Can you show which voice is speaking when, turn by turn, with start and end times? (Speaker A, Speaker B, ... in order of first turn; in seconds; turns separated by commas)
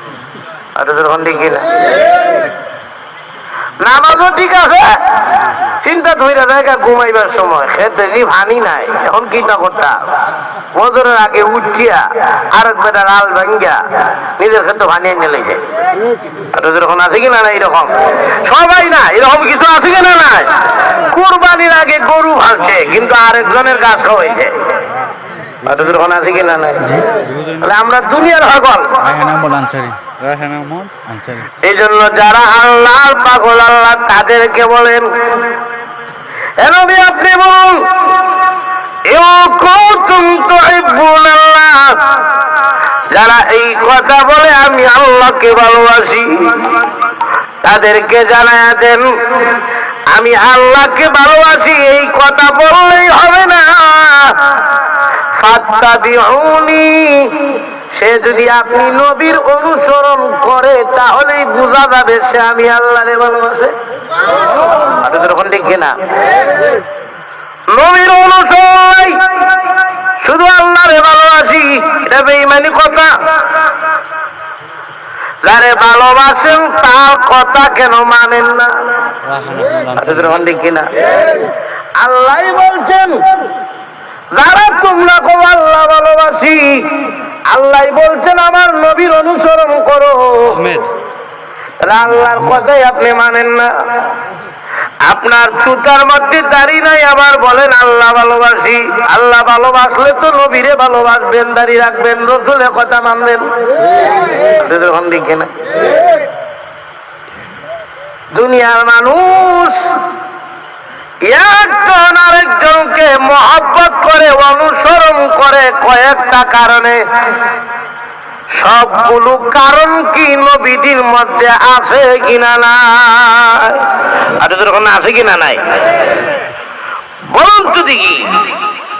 Speaker A: 0.8-1.8, Speaker A: 3.8-5.0, Speaker A: 5.8-10.0, Speaker A: 10.8-13.8, Speaker A: 14.4-15.6, Speaker A: 16.5-24.5, Speaker A: 25.6-27.0, Speaker B: 26.8-27.6, Speaker A: 27.6-29.0, Speaker B: 29.0-31.5, Speaker A: 31.6-35.5, Speaker A: 36.6-38.3, Speaker A: 39.1-42.2, Speaker A: 43.1-46.8, Speaker A: 47.6-49.6, Speaker A: 50.1-54.5, Speaker A: 55.3-63.7, Speaker A: 65.0-66.0, Speaker A: 67.7-73.1, Speaker A: 75.5-78.7, Speaker B: 79.2-80.4, Speaker A: 80.0-80.9, Speaker A: 82.0-83.3, Speaker A: 84.3-90.6, Speaker B: 90.5-90.9, Speaker A: 91.8-93.7, Speaker A: 95.0-103.5, Speaker A: 104.4-105.5, Speaker A: 108.3-110.0, Speaker A: 111.3-117.0, Speaker A: 118.6-123.9, Speaker A: 124.4-125.6, Speaker A: 127.3-128.5